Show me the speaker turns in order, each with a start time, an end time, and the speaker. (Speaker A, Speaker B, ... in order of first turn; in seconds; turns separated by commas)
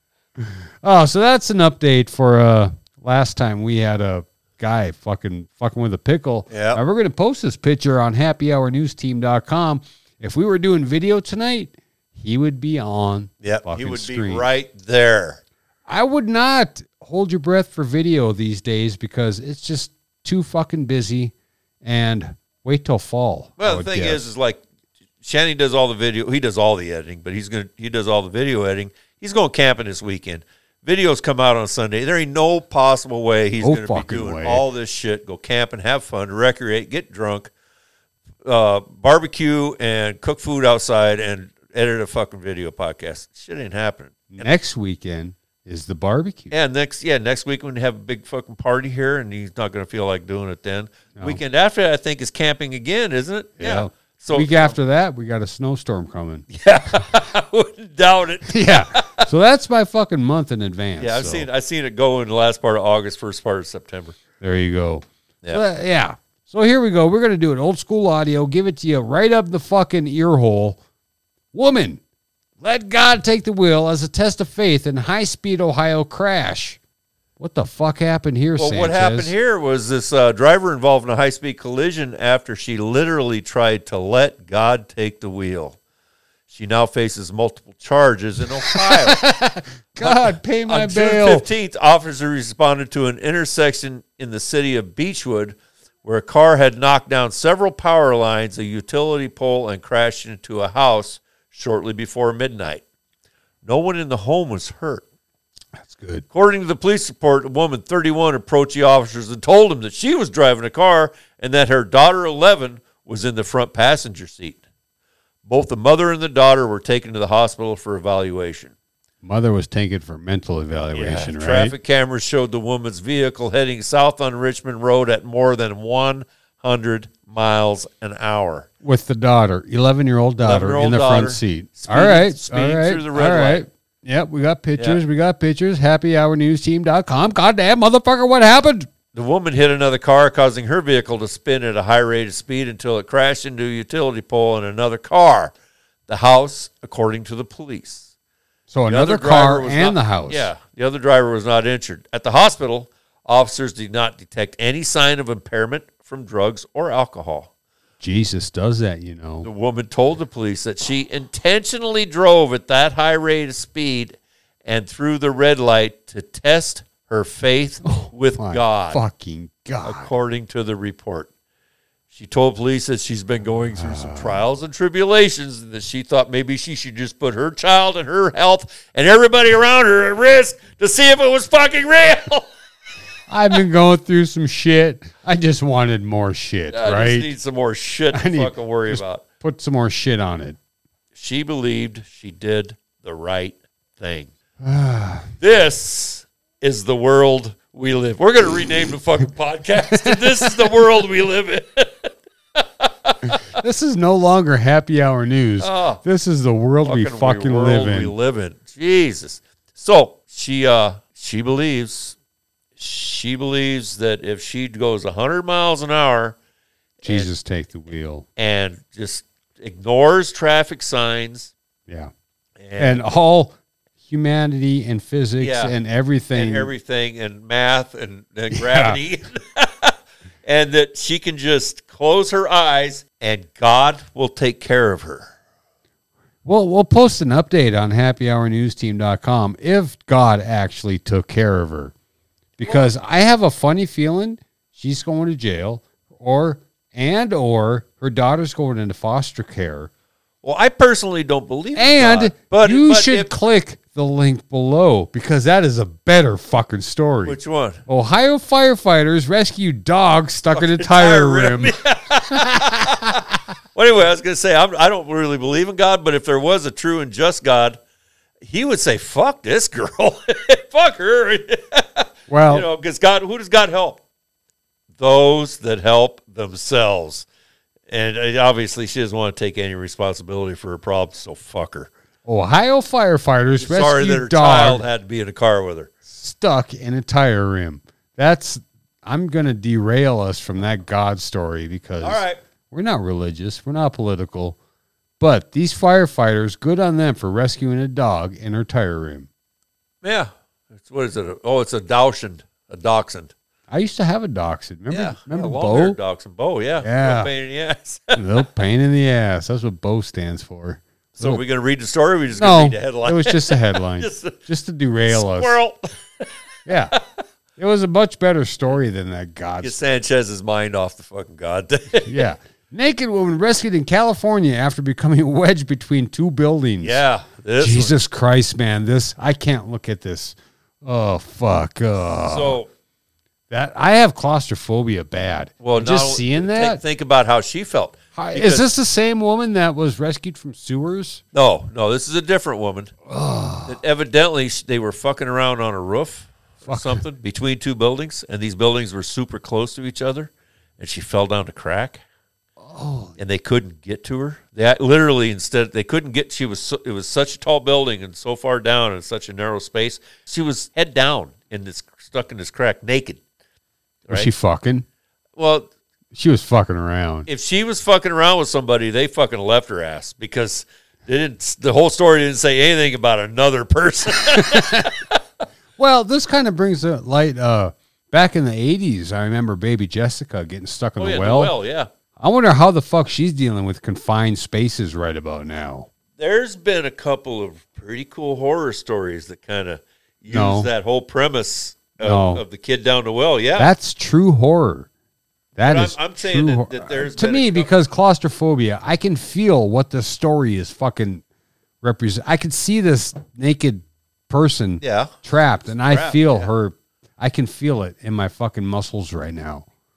Speaker A: 0.4-14.5, Speaker B: 6.5-6.8, Speaker B: 13.4-15.4, Speaker A: 15.9-24.2, Speaker B: 23.6-24.6, Speaker B: 25.2-37.5, Speaker A: 33.6-34.6, Speaker B: 38.4-44.5, Speaker A: 44.3-46.5, Speaker B: 46.5-54.8, Speaker A: 51.1-51.4, Speaker A: 53.6-56.5, Speaker B: 56.5-59.3, Speaker A: 58.5-61.5, Speaker B: 61.0-64.2, Speaker A: 64.4-70.8, Speaker A: 71.5-72.0, Speaker A: 72.6-76.8, Speaker A: 77.4-79.3, Speaker B: 78.6-85.8, Speaker B: 86.5-89.2, Speaker A: 88.6-91.5, Speaker B: 90.0-102.8, Speaker B: 103.6-105.0, Speaker A: 105.8-106.2, Speaker B: 106.3-114.6, Speaker B: 115.5-118.7, Speaker A: 119.2-121.8, Speaker B: 120.9-128.7, Speaker A: 128.8-138.9, Speaker B: 130.4-133.7, Speaker B: 139.1-145.5, Speaker B: 146.1-148.1, Speaker A: 148.7-150.5, Speaker B: 148.9-157.5, Speaker A: 158.0-159.5, Speaker B: 159.4-169.0, Speaker A: 167.8-170.1, Speaker B: 169.8-171.3, Speaker B: 172.1-182.5, Speaker A: 173.8-174.4, Speaker A: 183.3-187.3, Speaker B: 186.7-189.2, Speaker A: 188.1-190.6, Speaker B: 191.2-194.3, Speaker A: 194.6-195.3, Speaker B: 195.4-203.3, Speaker A: 199.9-200.5, Speaker A: 203.6-208.1, Speaker B: 205.6-206.0, Speaker B: 206.8-212.2, Speaker B: 212.8-216.4, Speaker B: 217.0-217.3, Speaker A: 217.0-218.3, Speaker B: 218.4-221.5, Speaker B: 222.6-223.1, Speaker A: 222.8-223.6, Speaker A: 224.1-226.7, Speaker B: 225.4-225.7, Speaker B: 226.3-235.3, Speaker A: 228.5-229.0, Speaker A: 236.4-241.9, Speaker A: 242.6-249.9, Speaker B: 242.6-242.9, Speaker B: 250.4-253.3, Speaker A: 251.8-261.8, Speaker B: 257.2-257.8, Speaker B: 260.5-263.2, Speaker A: 262.3-263.2, Speaker B: 263.7-267.8, Speaker B: 268.4-274.0, Speaker A: 272.3-272.7, Speaker B: 275.0-277.3, Speaker B: 277.9-281.9, Speaker A: 282.3-284.9, Speaker B: 283.6-285.9, Speaker A: 286.1-294.6, Speaker B: 292.0-292.4, Speaker A: 295.2-299.3, Speaker B: 300.0-303.3, Speaker A: 303.7-306.0, Speaker B: 304.9-308.2, Speaker A: 306.8-307.3, Speaker A: 308.1-311.4, Speaker B: 311.2-314.4, Speaker A: 312.4-315.6, Speaker B: 315.1-316.3, Speaker A: 316.7-317.0, Speaker A: 317.6-319.8, Speaker B: 319.6-322.2, Speaker A: 322.1-327.0, Speaker B: 326.8-328.0, Speaker A: 327.6-332.6, Speaker B: 332.2-332.7, Speaker A: 333.5-336.8, Speaker B: 335.6-338.7, Speaker A: 338.1-341.2, Speaker B: 341.3-342.9, Speaker A: 343.1-343.8, Speaker B: 343.7-352.0, Speaker A: 346.6-347.0, Speaker A: 352.6-353.1, Speaker B: 353.2-363.2, Speaker B: 364.1-364.3, Speaker A: 364.1-364.9, Speaker B: 365.4-365.7, Speaker A: 366.1-367.3, Speaker B: 367.3-375.2, Speaker A: 374.3-374.9, Speaker A: 375.8-381.6, Speaker B: 381.0-381.9, Speaker A: 382.2-385.9, Speaker B: 386.2-393.7, Speaker A: 390.3-390.7, Speaker A: 392.0-392.4, Speaker A: 393.6-394.9, Speaker A: 395.6-401.2, Speaker B: 395.6-397.7, Speaker A: 401.8-409.7, Speaker B: 404.8-405.1, Speaker B: 405.8-406.5